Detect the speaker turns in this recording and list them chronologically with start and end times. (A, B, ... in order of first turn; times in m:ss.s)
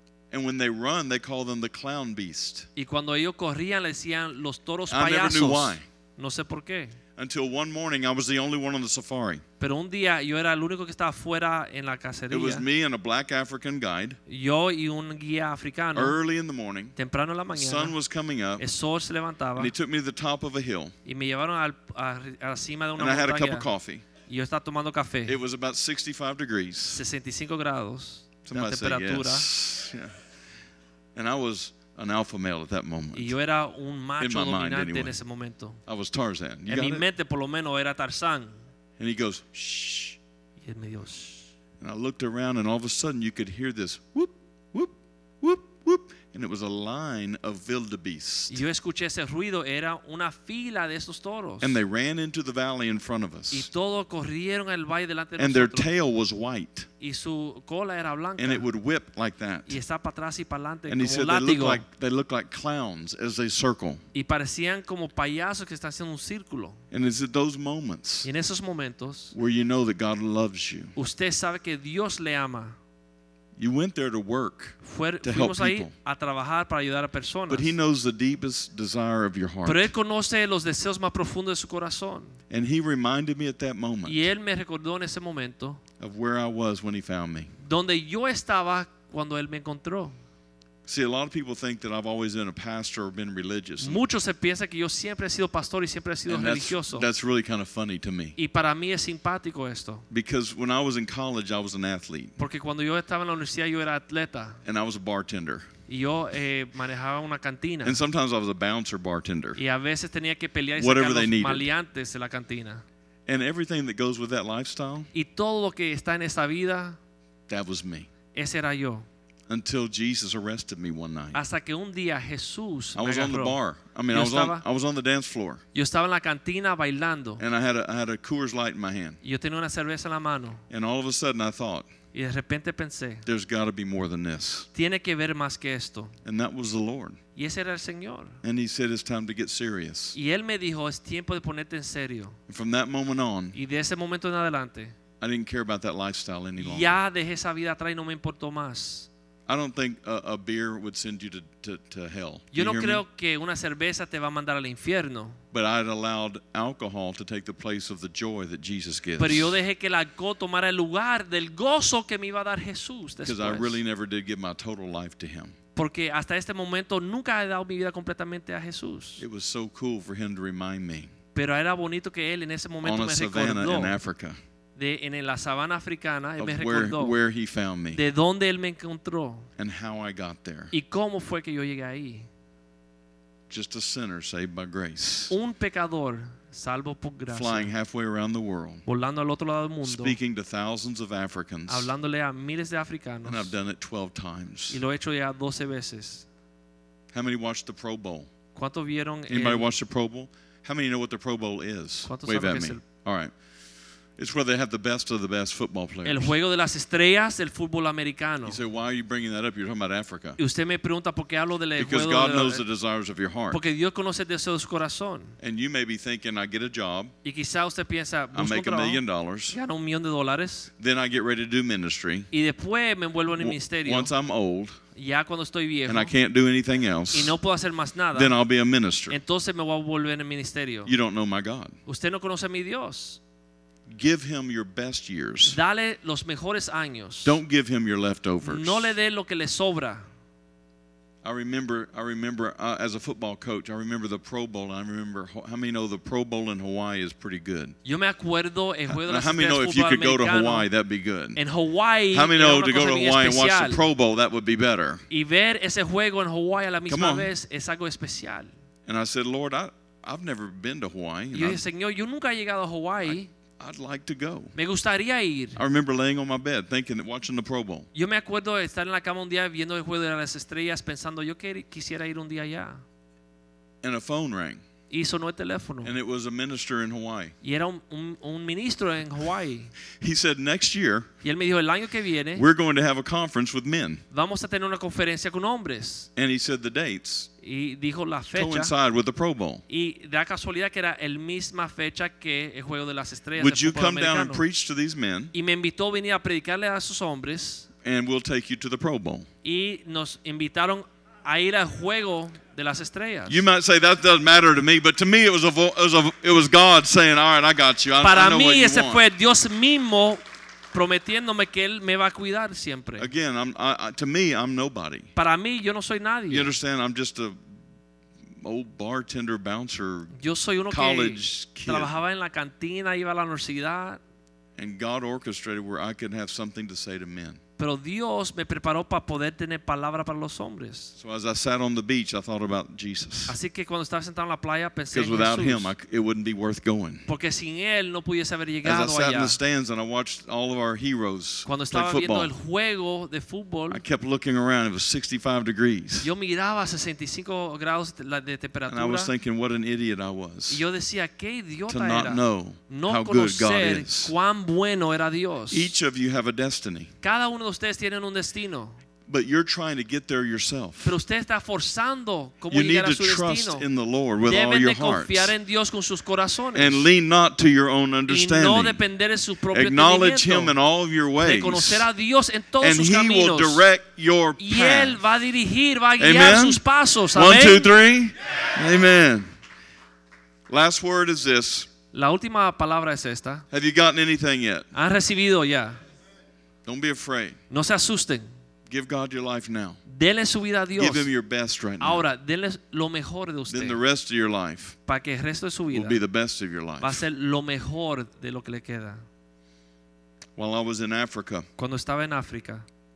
0:00.3-0:02.7 A
0:02.8-0:07.0 B
0:04.9-0:05.8 A
0:07.2-0:09.4 A
0:09.6-0:12.6 B
0:12.3-0:14.2 A
0:14.3-0:16.2 B
0:15.9-0:17.0 A
0:17.0-0:18.0 B
0:17.5-0:18.6 A
0:18.6-0:19.7 B
0:19.6-0:20.9 A
0:21.0-0:23.7 B
0:23.0-0:24.0 A
0:24.2-0:25.4 B
0:25.2-0:27.0 A
0:26.9-0:29.5 B
0:28.4-0:30.2 A
0:31.1-0:33.3 A
0:33.1-0:35.8 B
0:34.2-0:35.2 A
0:35.8-0:37.0 A
0:36.7-0:38.6 B
0:39.0-0:40.2 A
0:40.6-0:41.5 B
0:41.8-0:48.6 A
0:48.5-0:51.8 B
0:51.6-0:53.7 A
0:53.5-0:55.9 B
0:55.4-0:56.9 A
0:57.0-0:58.6 B
0:58.4-0:59.8 A
0:59.7-1:01.8 B
1:00.9-1:04.0 A
1:04.1-1:06.8 B
1:06.9-1:08.3 A
1:08.2-1:09.3 B
1:09.3-1:10.9 A
1:11.0-1:12.8 B
1:13.6-1:15.9 A
1:14.8-1:17.7 B
1:17.5-1:19.9 A
1:19.6-1:22.4 B
1:22.5-1:24.3 A
1:24.0-1:25.8 B
1:26.0-1:27.5 A
1:27.6-1:30.2 B
1:30.8-1:34.0 A
1:33.8-1:37.1 B
1:36.3-1:38.4 A
1:38.4-1:40.0 B
1:40.1-1:42.3 A
1:42.4-1:44.6 B
1:44.6-1:45.7 A
1:45.9-1:48.0 B
1:47.8-1:49.6 A
1:49.6-1:52.8 B
1:50.8-1:51.7 A
1:53.2-1:55.1 A
1:55.1-1:57.0 B
1:57.5-1:58.1 A
1:58.3-1:59.0 B
1:59.5-2:01.4 A
2:01.3-2:03.6 B
2:02.9-2:05.6 A
2:04.1-2:04.6 B
2:05.7-2:07.4 B
2:07.4-2:09.2 A
2:09.2-2:10.6 B
2:10.7-2:11.9 A
2:12.1-2:13.2 B
2:13.2-2:14.7 A
2:14.7-2:16.2 B
2:16.2-2:17.2 A
2:17.4-2:18.4 B
2:18.4-2:20.2 A
2:20.1-2:22.4 B
2:22.5-2:23.6 A
2:23.5-2:24.9 B
2:25.2-2:27.0 A
2:26.6-2:29.1 B
2:29.5-2:33.0 A
2:32.5-2:35.4 B
2:35.5-2:39.6 A
2:39.2-2:43.8 B
2:43.2-2:45.6 A
2:45.8-2:49.2 B
2:49.2-2:51.1 A
2:51.3-2:54.0 B
2:52.8-2:54.4 A
2:54.8-2:57.2 B
2:56.4-2:58.0 A
2:57.9-2:59.5 B
2:59.6-3:00.7 A
3:00.7-3:02.3 B
3:03.5-3:05.3 A
3:05.3-3:07.7 B
3:07.3-3:08.8 A
3:08.8-3:10.2 B
3:09.8-3:11.9 A
3:11.7-3:13.5 B
3:13.2-3:14.8 A
3:14.7-3:16.3 B
3:17.1-3:18.3 A
3:18.5-3:19.7 B
3:19.3-3:23.3 A
3:22.0-3:22.8 B
3:24.2-3:26.3 A
3:26.0-3:28.6 B
3:28.4-3:30.4 A
3:30.4-3:32.6 B
3:31.8-3:33.6 A
3:33.5-3:35.4 B
3:35.4-3:37.1 A
3:37.2-3:40.7 B
3:38.3-3:39.6 A
3:40.8-3:42.3 A
3:42.3-3:44.1 B
3:43.4-3:44.8 A
3:44.9-3:46.1 B
3:45.9-3:47.3 A
3:47.1-3:48.3 B
3:48.1-3:49.2 A
3:49.1-3:50.9 B
3:50.8-3:51.8 A
3:51.8-3:53.2 B
3:53.9-3:55.6 A
3:55.5-3:57.3 B
3:57.2-3:58.9 A
3:58.4-4:00.0 B
4:01.2-4:07.8 A
4:07.8-4:10.7 B
4:08.9-4:11.4 A
4:11.4-4:13.8 B
4:12.1-4:15.0 A
4:15.1-4:18.5 B
4:16.9-4:17.3 A
4:18.8-4:21.6 A
4:21.3-4:23.3 B
4:23.0-4:24.5 A
4:24.5-4:25.6 B
4:25.6-4:27.9 A
4:27.9-4:32.8 B
4:33.8-4:34.6 A
4:34.9-4:35.9 B
4:35.8-4:37.3 A
4:37.4-4:39.7 B
4:40.0-4:41.1 A
4:41.2-4:42.4 B
4:42.3-4:44.0 A
4:44.1-4:46.1 B
4:46.2-4:47.3 A
4:47.4-4:48.7 B
4:48.3-4:49.6 A
4:49.7-4:54.4 B
4:53.4-4:55.3 A
4:55.3-4:57.7 B
4:57.8-4:59.3 A
4:59.4-5:03.4 B
5:03.3-5:09.0 A
5:08.0-5:10.2 B
5:10.7-5:13.1 B
5:13.0-5:15.1 A
5:15.2-5:16.5 B
5:16.3-5:17.4 A
5:18.3-5:20.1 A
5:20.2-5:24.0 B
5:20.7-5:21.9 A
5:24.6-5:27.4 A
5:27.6-5:30.9 B
5:31.0-5:33.4 A
5:33.3-5:35.7 B
5:34.9-5:37.1 A
5:37.1-5:39.4 B
5:38.6-5:42.3 A
5:41.4-5:43.8 B
5:43.7-5:46.1 A
5:46.0-5:49.1 B
5:48.7-5:50.6 A
5:50.5-5:55.7 B
5:51.7-5:54.1 A
5:55.5-5:56.9 A
5:57.0-5:58.8 B
5:59.0-6:01.0 A
6:00.8-6:03.7 B
6:02.5-6:05.3 A
6:04.2-6:06.9 B
6:06.5-6:08.8 A
6:08.1-6:10.6 B
6:09.5-6:11.9 A
6:11.2-6:13.6 B
6:12.6-6:15.0 A
6:14.4-6:17.7 B
6:16.0-6:19.3 A
6:20.5-6:21.7 A
6:21.9-6:23.4 B
6:23.5-6:24.7 A
6:24.7-6:25.8 B
6:26.6-6:27.4 A
6:27.5-6:28.3 B
6:28.7-6:29.8 A
6:29.9-6:31.1 B
6:30.8-6:32.0 A
6:31.8-6:33.8 B
6:33.5-6:34.8 A
6:34.8-6:36.0 B
6:35.7-6:37.0 A
6:36.8-6:39.0 B
6:40.4-6:41.5 A
6:41.6-6:42.6 B